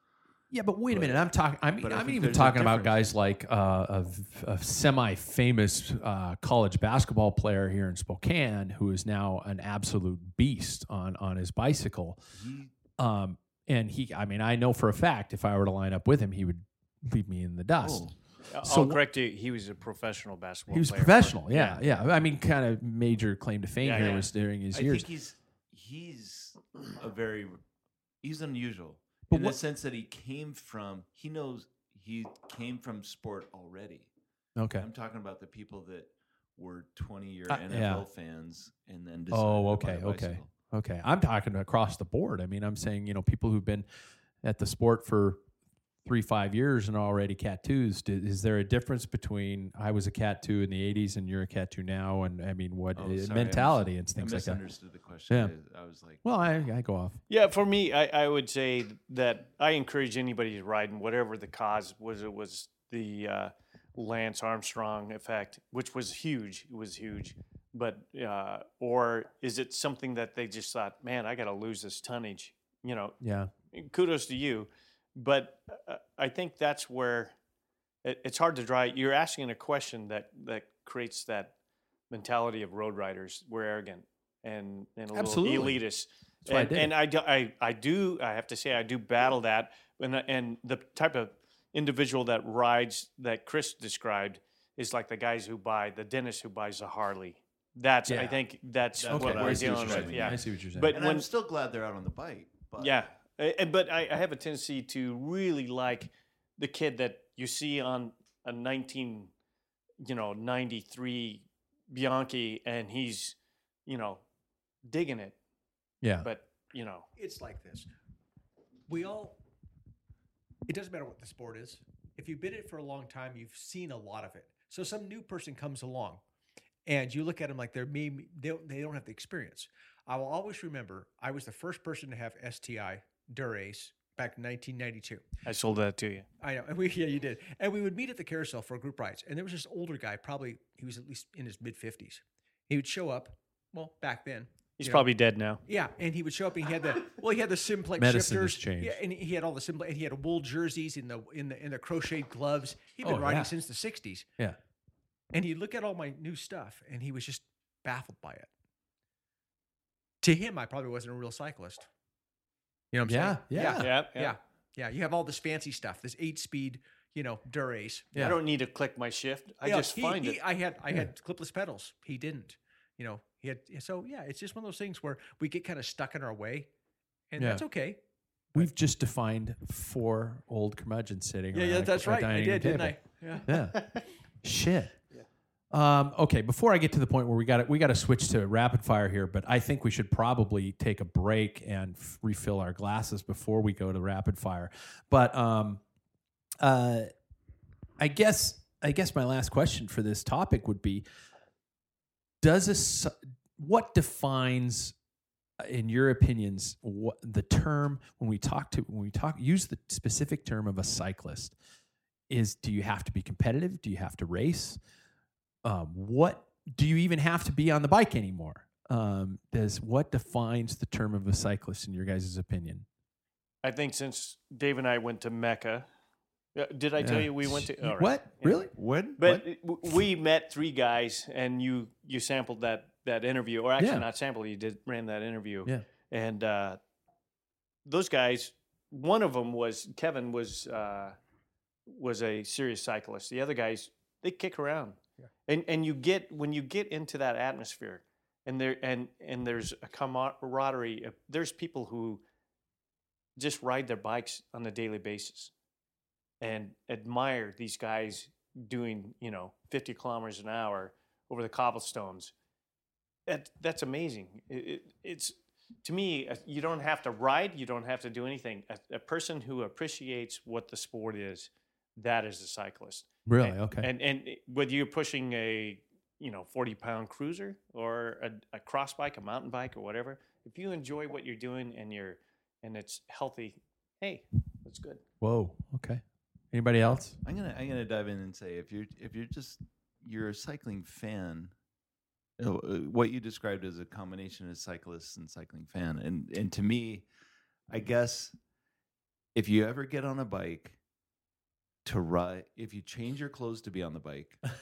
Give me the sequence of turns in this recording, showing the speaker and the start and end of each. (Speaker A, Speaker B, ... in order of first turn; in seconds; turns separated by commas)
Speaker A: 0.5-12.2, Speaker B: 0.9-1.2, Speaker B: 1.8-3.1, Speaker B: 12.3-12.7, Speaker A: 13.0-18.0, Speaker B: 17.8-18.1, Speaker C: 18.5-21.8, Speaker A: 18.6-19.0, Speaker A: 20.7-25.1, Speaker C: 23.8-24.3, Speaker B: 24.7-27.6, Speaker B: 28.2-34.1, Speaker A: 29.3-29.6, Speaker A: 34.6-34.9, Speaker B: 34.8-40.5, Speaker A: 37.5-38.0, Speaker A: 39.3-43.9, Speaker A: 44.4-45.4, Speaker A: 46.0-54.6, Speaker B: 53.0-56.2, Speaker A: 56.2-57.2, Speaker C: 57.3-73.2, Speaker A: 73.2-73.5, Speaker C: 73.7-77.3, Speaker C: 78.0-81.5, Speaker C: 82.1-101.3, Speaker A: 85.1-85.8, Speaker A: 86.5-87.0, Speaker A: 98.1-98.4, Speaker B: 99.0-103.0, Speaker A: 99.1-101.0, Speaker C: 102.8-109.3, Speaker C: 110.0-114.2, Speaker C: 114.8-115.4, Speaker A: 116.0-116.3, Speaker C: 116.2-117.1, Speaker D: 117.2-117.9, Speaker D: 118.9-119.4, Speaker D: 120.7-126.2, Speaker D: 126.8-135.2, Speaker C: 135.4-136.3, Speaker D: 136.4-145.1, Speaker C: 144.8-145.6, Speaker D: 145.6-154.3, Speaker A: 148.0-149.0, Speaker A: 153.0-153.5, Speaker D: 155.3-158.5, Speaker D: 160.2-161.9, Speaker D: 162.9-168.1, Speaker A: 163.1-163.9, Speaker C: 163.6-164.4, Speaker C: 168.2-170.4, Speaker D: 169.6-176.7, Speaker D: 177.3-178.0, Speaker A: 177.4-177.6, Speaker A: 178.5-183.8, Speaker D: 181.5-183.5, Speaker C: 183.7-184.0, Speaker A: 184.4-185.0, Speaker A: 185.7-195.8, Speaker A: 196.6-197.1, Speaker A: 198.0-201.0, Speaker A: 202.4-204.9, Speaker A: 205.6-211.5, Speaker A: 212.3-214.8, Speaker A: 215.6-222.8, Speaker C: 223.6-225.9, Speaker C: 226.5-228.6, Speaker A: 227.0-228.7, Speaker B: 228.7-229.4, Speaker C: 229.2-236.8, Speaker A: 233.8-234.1, Speaker C: 237.8-241.2, Speaker C: 241.8-252.2, Speaker C: 253.3-255.5, Speaker C: 256.4-262.3, Speaker C: 263.2-285.0, Speaker A: 273.2-273.9, Speaker A: 285.2-287.2, Speaker B: 287.2-291.5, Speaker B: 292.4-297.1, Speaker B: 297.7-298.3, Speaker B: 299.3-300.8, Speaker B: 301.8-304.4